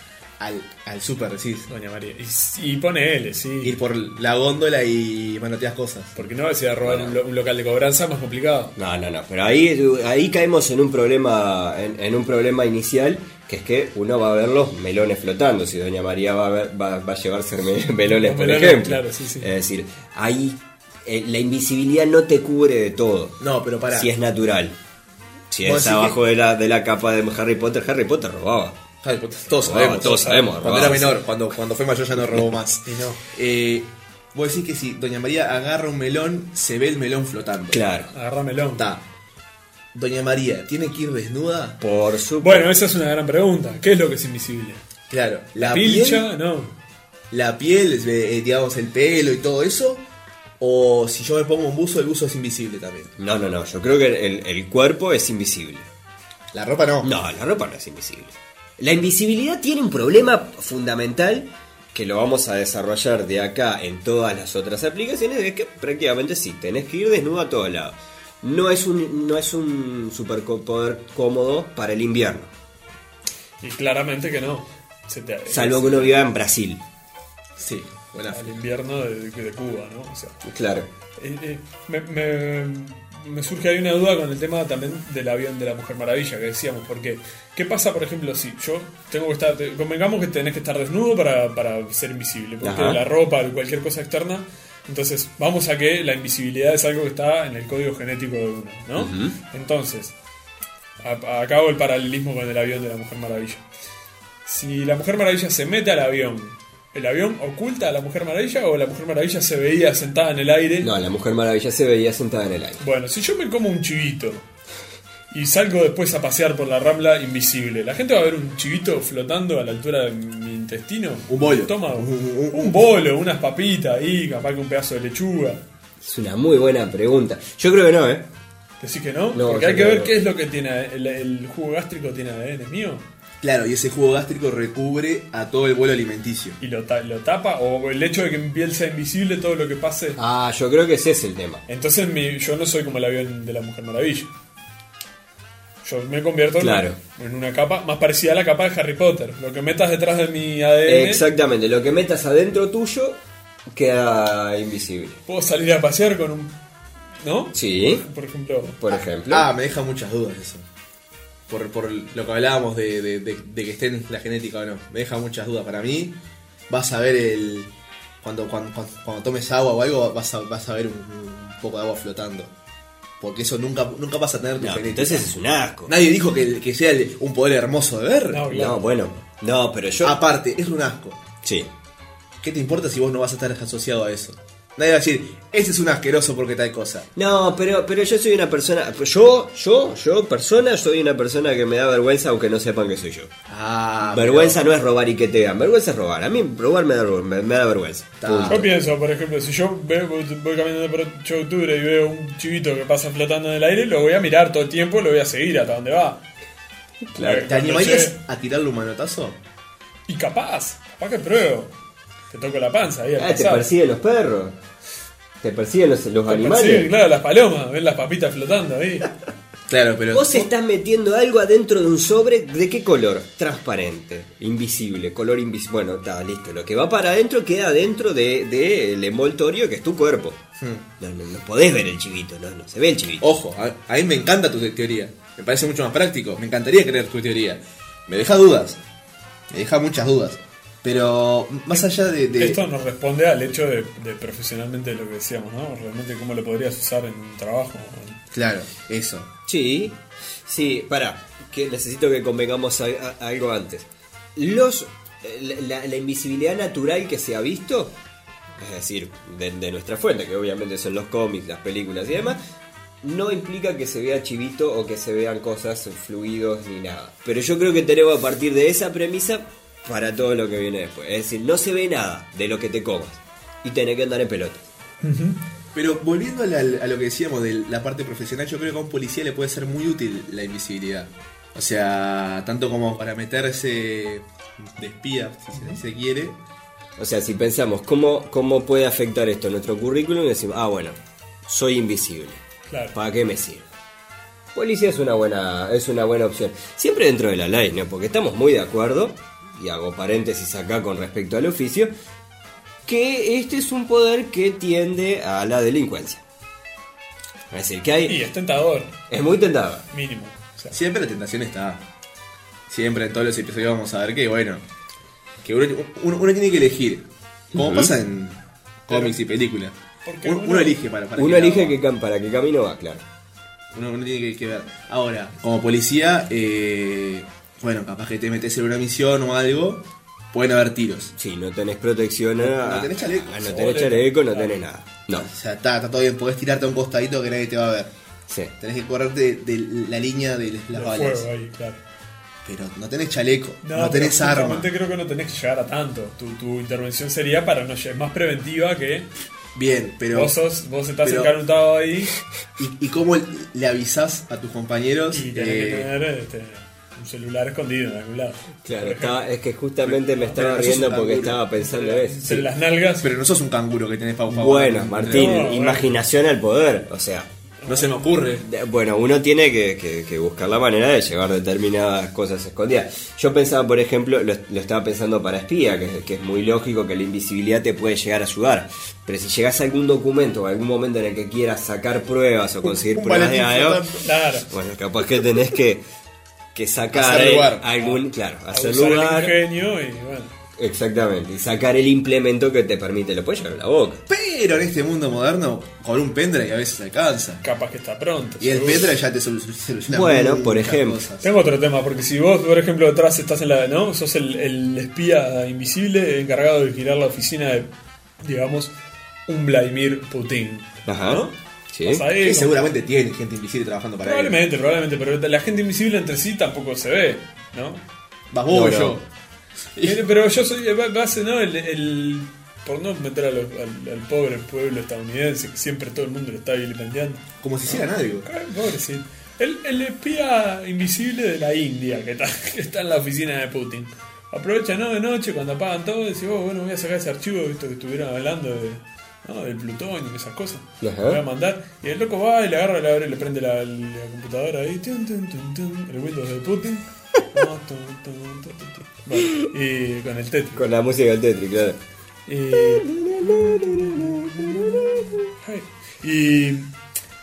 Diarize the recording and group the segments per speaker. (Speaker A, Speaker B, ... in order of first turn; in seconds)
Speaker A: 0.4-1.7, 3.6-6.2, 23.4-24.1, 25.6-26.2, 29.0-37.8, 38.8-39.0, 39.9-41.8, 45.1-46.3, 47.3-50.0, 50.6-53.1, 56.5-57.1, 77.6-78.5, 121.3-122.9, 133.4-136.6, 159.3-160.7, 161.5-166.2, 166.7-167.7, 168.2-172.5, 173.2-175.3, 175.9-178.5, 180.0-181.2, 182.4-187.1, 193.5-194.6, 198.2-198.7, 207.2-209.4, 219.7-220.5, 233.2-238.8, 239.5-242.6, 248.3-249.3, 275.7-286.4, 310.7-311.8, 312.7-314.6, 315.4-321.8, 323.7-331.1, 332.4-333.8, 335.1-337.9, 338.6-341.3, 342.4-344.7, 349.5-350.3, 351.0-351.4, 352.6-355.9, 359.9-361.4, 363.0-365.4, 367.7-368.4, 382.6-384.1, 386.9-387.7, 394.1-397.4, 398.4-401.3, 412.2-414.4, 418.3-419.0, 419.8-420.0, 427.4-428.3
Speaker B: 1.7-3.8, 6.2-8.7, 18.1-19.5, 29.7-31.0, 32.8-33.2, 38.1-38.9, 42.4-44.8, 45.5-46.7, 73.6-76.2, 78.3-80.4, 81.2-100.1, 101.0-103.7, 104.5-110.9, 112.8-114.5, 115.3-125.6, 128.8-133.0, 136.6-140.2, 141.7-144.3, 145.8-151.2, 155.2-156.6, 157.2-158.8, 178.3-178.8, 198.5-206.2, 207.1-208.2, 210.1-211.7, 212.3-213.7, 216.3-219.1, 242.3-248.2, 275.0-275.4, 292.7-292.9, 308.1-309.0, 309.9-310.8, 320.0-320.8, 333.4-334.5, 340.7-341.8, 343.6-349.1, 350.1-352.1, 355.1-359.2, 360.1-360.4, 361.6-363.1, 365.1-365.9, 367.6-368.2, 384.0-384.5, 387.8-390.3, 397.4-398.9, 401.2-407.7, 408.2-408.7, 409.3-412.6, 414.0-417.8, 419.8-450.6, 452.3-456.7
Speaker C: 6.8-7.2, 8.8-23.4, 23.9-24.8, 25.5-28.8, 29.6-31.2, 37.7-38.1, 41.8-42.7, 53.2-55.9, 57.0-72.5, 75.5-76.8, 80.4-80.9, 92.6-93.0, 99.0-99.3, 110.8-112.8, 126.0-128.3, 129.3-130.1, 140.2-141.6, 146.6-147.0, 150.9-153.2, 153.7-155.2, 157.5-158.0, 158.8-159.5, 174.6-175.9, 178.5-180.2, 181.4-181.7, 187.2-193.3, 194.0-198.7, 207.2-207.5, 213.2-214.6, 215.4-216.9, 220.1-230.4, 231.0-233.3, 249.5-257.9, 258.6-262.4, 263.0-274.7, 287.0-292.4, 292.9-293.7, 294.5-301.9, 302.9-306.2, 307.5-308.2, 309.1-309.9, 317.5-317.9, 321.1-323.0, 331.1-335.3, 358.6-362.3, 364.3-367.3, 368.4-383.8, 384.5-385.8, 386.5-389.4, 390.6-394.0, 399.9-401.0, 410.9-412.1, 418.5-419.0, 440.8-441.2, 450.5-451.8, 452.5-455.3